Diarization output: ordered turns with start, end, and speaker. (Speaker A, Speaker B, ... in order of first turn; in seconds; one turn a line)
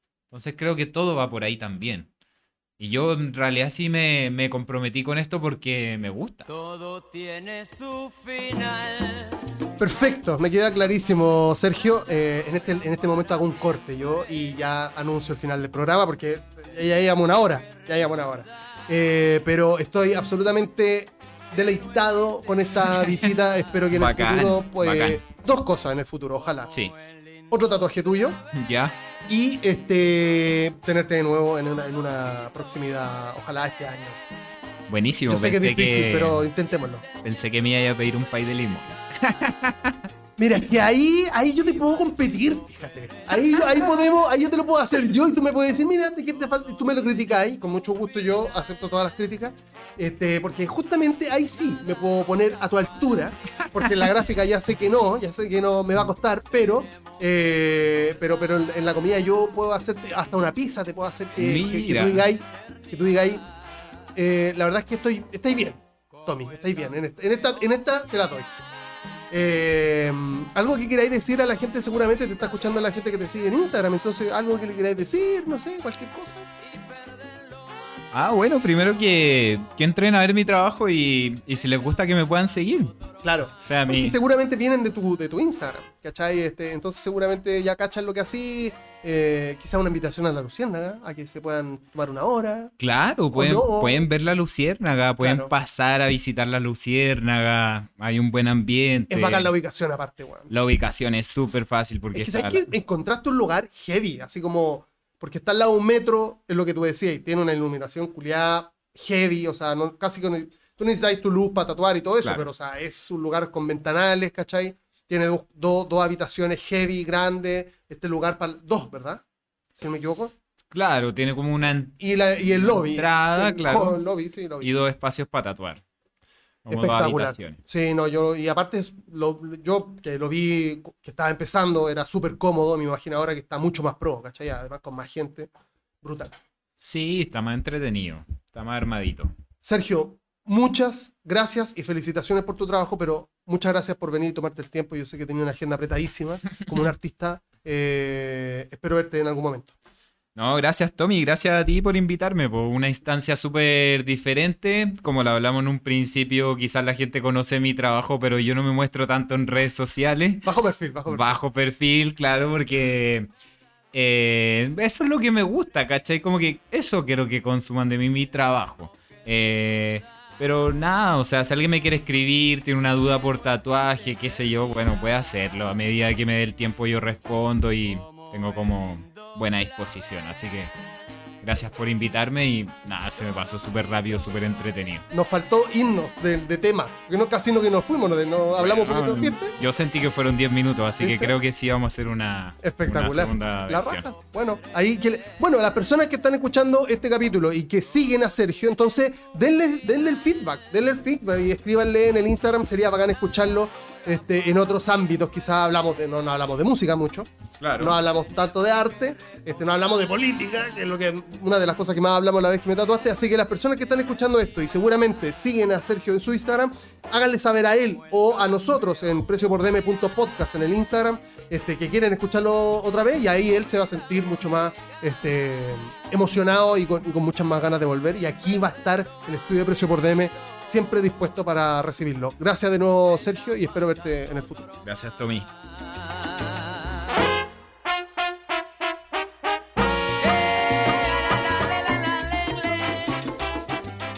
Speaker A: 0.3-2.1
Speaker A: 2.8-6.5
Speaker B: 6.5-9.4
Speaker C: 9.8-26.7
Speaker A: 23.0-23.3
Speaker A: 23.9-25.2
Speaker C: 27.5-28.4
Speaker A: 28.5-29.0
Speaker C: 29.3-34.2
Speaker A: 34.9-36.5
Speaker C: 35.3-37.0
Speaker A: 37.2-40.0
Speaker C: 40.4-63.4
Speaker A: 61.4-62.2
Speaker C: 64.1-68.6
Speaker C: 69.3-76.5
Speaker B: 76.8-77.7
Speaker A: 78.1-83.0
Speaker C: 83.2-92.7
Speaker A: 83.6-84.2
Speaker A: 92.8-99.5
Speaker C: 93.3-94.0
Speaker C: 95.2-95.5
Speaker C: 99.1-100.5
Speaker A: 100.5-102.7
Speaker C: 102.1-119.2
Speaker C: 119.7-120.3
Speaker A: 120.7-124.0
Speaker C: 122.0-124.7
Speaker A: 124.6-125.8
Speaker A: 126.7-127.6
Speaker C: 126.7-135.5
Speaker C: 136.0-136.4
Speaker A: 136.8-139.3
Speaker C: 139.6-149.7
Speaker A: 150.3-160.5
Speaker C: 160.4-161.4
Speaker A: 161.1-163.3
Speaker A: 163.9-180.7
Speaker A: 181.4-185.0
Speaker C: 185.1-189.5
Speaker A: 188.6-194.1
Speaker C: 191.0-191.3
Speaker C: 192.6-234.7
Speaker A: 207.6-208.0
Speaker A: 234.8-235.5
Speaker B: 240.8-243.1